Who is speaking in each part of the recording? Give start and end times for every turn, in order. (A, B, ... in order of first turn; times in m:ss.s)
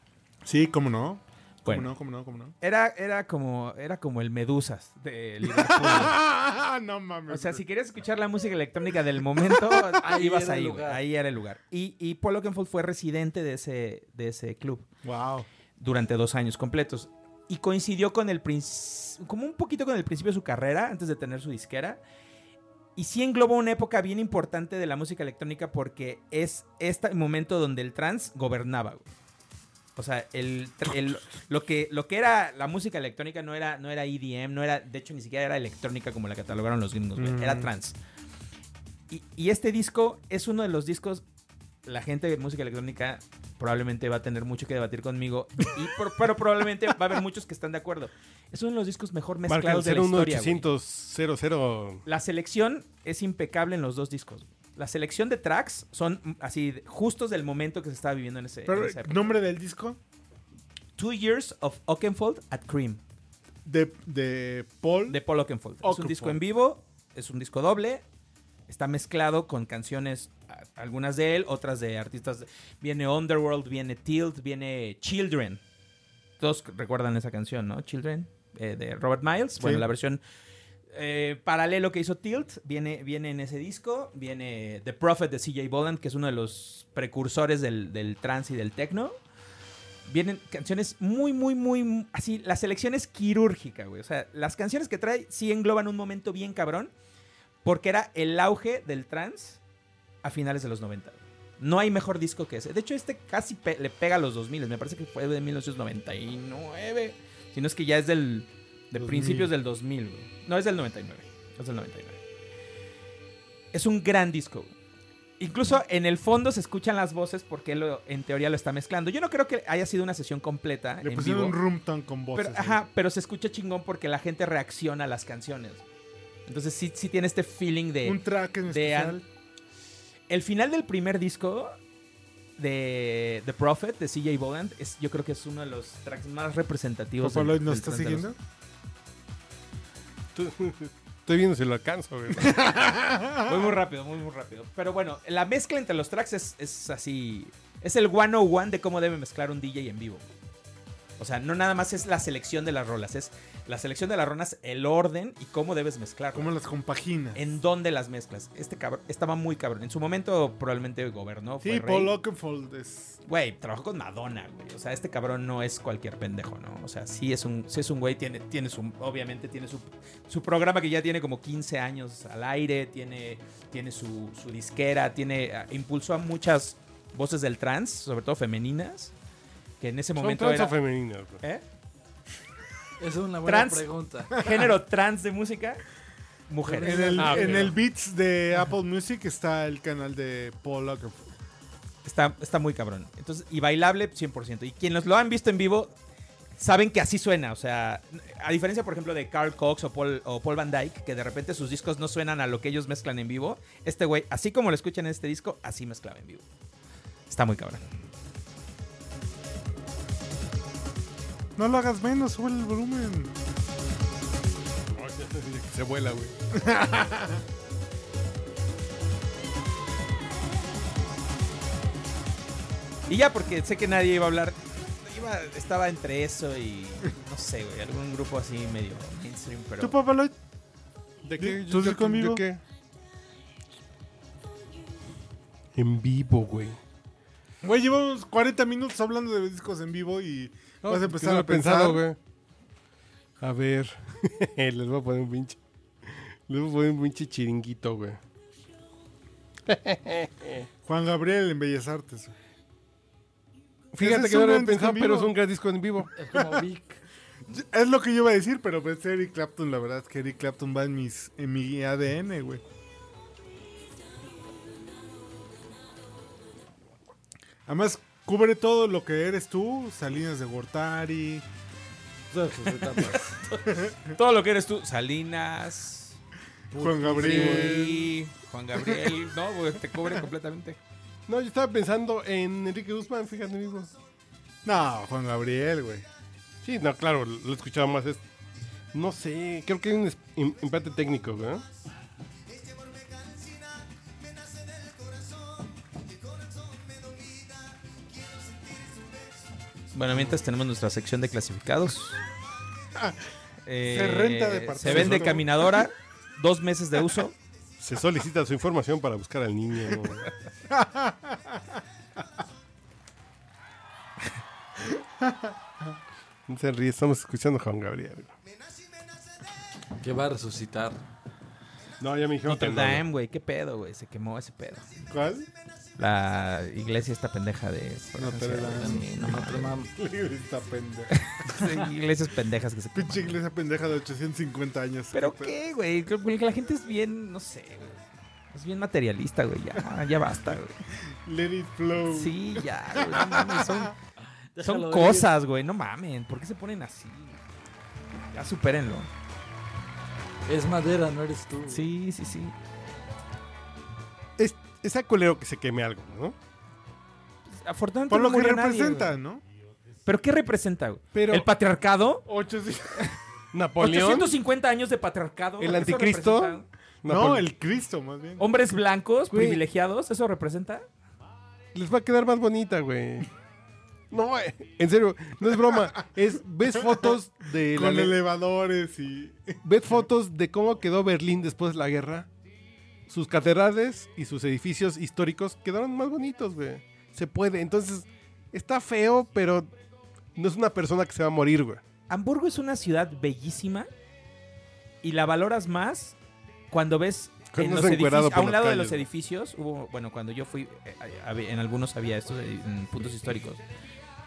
0:00.4-0:02.5 A
0:01.6-0:01.9 B
0:02.6-0:06.2 B
0:05.4-0:07.6 A
0:07.3-0:14.8 B
0:10.0-0:11.0 C
0:15.0-0:15.5 A
0:15.8-0:22.0 B
0:23.0-0:29.0 B
0:30.0-0:38.0 B
0:37.2-0:37.7 A
0:39.1-0:41.2 B
0:41.8-0:50.7 B
0:49.5-0:52.0 D
0:52.0-0:59.2 B
0:58.7-1:00.0 A
1:01.0-1:03.0 B
1:03.6-1:05.2 A
1:05.1-1:08.0 B
1:05.8-1:06.4 A
1:08.7-1:15.6 B
1:16.4-1:20.2 B
1:19.6-1:19.8 A
1:20.9-1:29.1 B
1:30.1-1:36.9 B
1:37.6-1:39.6 B
1:40.2-1:52.2 B
1:49.0-1:49.5 A
1:53.7-1:54.7 B
1:55.4-2:01.6 B
2:01.0-2:02.8 A
2:02.3-2:05.8 B
2:06.5-2:09.2 B
2:08.0-2:09.2 A
2:10.3-2:11.8 B
2:12.6-2:18.3 B
2:17.2-2:18.4 A
2:20.3-2:22.6 D
2:22.4-2:23.7 A
2:23.4-2:30.2 B
2:31.2-2:36.5 B
2:36.3-2:37.4 A
2:37.3-2:42.1 B
2:41.6-2:43.2 A
2:43.2-2:59.1 B
2:59.8-3:00.7 B
3:00.2-3:01.4 D
3:03.0-3:04.4 C
3:03.4-3:05.8 B
3:06.5-3:07.8 B
3:06.6-3:07.8 C
3:06.8-3:11.2 A
3:07.2-3:07.6 D
3:12.0-3:15.9 B
3:16.6-3:26.4 B
3:27.3-3:27.8 B
3:31.6-3:33.3 A
3:34.9-3:36.3 D
3:36.5-3:37.4 A
3:43.1-3:50.0 B
3:49.8-3:50.3 A
3:51.2-3:52.6 D
3:51.4-3:52.4 A
3:55.7-3:56.8 D
3:57.6-4:02.0 A
4:00.8-4:02.2 D
4:03.4-4:08.2 D
4:09.6-4:10.7 D
4:10.8-4:12.3 A
4:13.9-4:16.1 D
4:14.0-4:15.3 A
4:16.2-4:17.0 C
4:16.3-4:16.6 A
4:17.5-4:22.6 A
4:27.7-4:31.4 A
4:32.3-4:33.4 C
4:33.6-4:34.0 A
4:34.1-4:36.2 B
4:36.7-4:37.8 C
4:36.7-4:37.8 A
4:37.2-4:38.1 D
4:37.2-4:40.8 B
4:41.3-4:43.9 D
4:44.6-4:46.1 A
4:46.6-4:48.2 D
4:48.9-4:51.6 D
4:59.9-5:02.2 B
5:03.6-5:07.3 B
5:03.8-5:05.8 A
5:04.8-5:05.4 D
5:07.8-5:10.3 D
5:10.7-5:11.6 A
5:14.8-5:15.5 A
5:16.5-5:18.3 D
5:20.0-5:21.0 C
5:22.0-5:23.0 D
5:22.5-5:24.9 B
5:25.1-5:25.5 A
5:26.0-5:29.7 B
5:28.2-5:29.4 A
5:28.6-5:29.9 C
5:29.9-5:31.8 A
5:31.3-5:33.4 B
5:32.9-5:35.5 A
5:35.1-5:40.8 B
5:41.2-5:42.4 A
5:42.1-5:43.9 B
5:43.0-5:43.9 A
5:44.5-5:45.3 C
5:44.6-5:47.4 B
5:48.3-5:49.1 B
5:50.5-5:51.8 C
5:51.7-5:52.6 B
5:54.4-5:56.4 D
5:57.5-5:59.2 B
5:58.1-5:59.4 A
6:00.0-6:02.2 B
6:01.1-6:01.5 D
6:02.2-6:03.0 A
6:03.5-6:04.4 D
6:03.8-6:06.6 B
6:05.6-6:07.5 D
6:07.0-6:08.5 A
6:08.4-6:10.8 B
6:09.3-6:09.6 D
6:11.7-6:13.3 D
6:14.1-6:18.2 D
6:15.8-6:16.1 A
6:17.7-6:19.6 A
6:19.6-6:22.3 D
6:23.1-6:29.7 D
6:30.3-6:31.8 D
6:32.1-6:33.9 B
6:35.0-6:36.2 B
6:36.7-6:43.6 B
6:37.5-6:39.1 D